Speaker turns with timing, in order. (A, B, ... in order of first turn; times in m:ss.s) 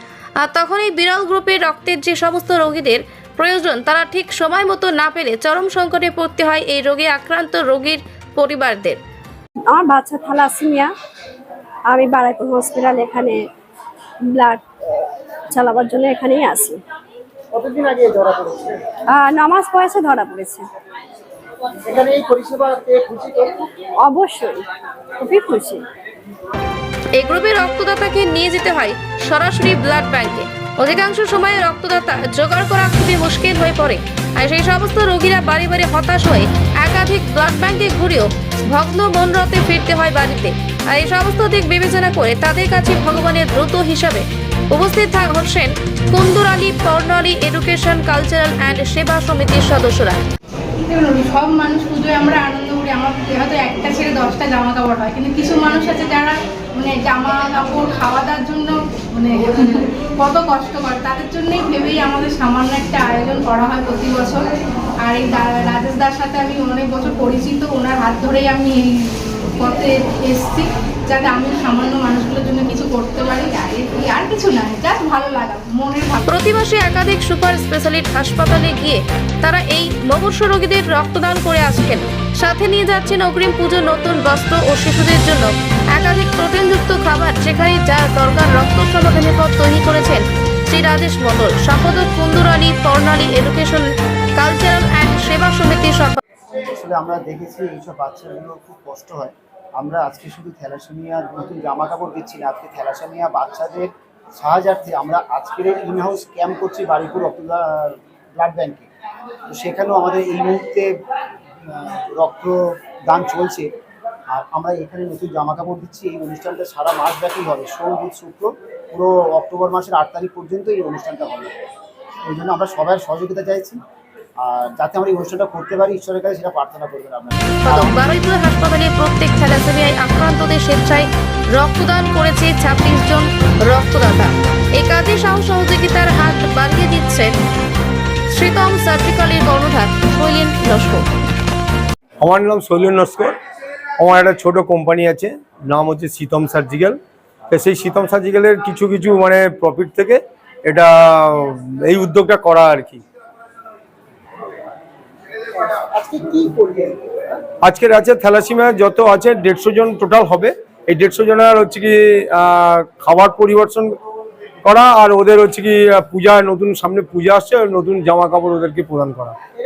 0:00.4-0:09.0 A
0:09.7-0:10.9 B
0:11.9-0:13.5 B
0:14.2-0:16.8 B
0:17.5-0:18.8 C
0:19.0-0:20.7 B
0:21.8-0:23.6 C
0:24.0-0:25.8 B
0:27.1-0:50.2 A
0:50.8-1:04.5 D
1:05.0-1:16.3 D
1:16.3-1:36.2 A
1:36.6-1:48.9 C
1:49.5-1:50.9 C
1:51.6-1:53.7 C
1:54.3-2:01.5 C
2:02.2-2:03.8 C
2:04.4-2:08.0 C
2:07.6-2:17.3 A
2:18.3-2:21.1 A
2:22.2-2:23.4 E
2:24.0-2:27.0 E
2:27.5-2:33.0 E
2:35.8-2:37.4 C
2:37.6-2:44.0 E
2:44.6-2:49.4 E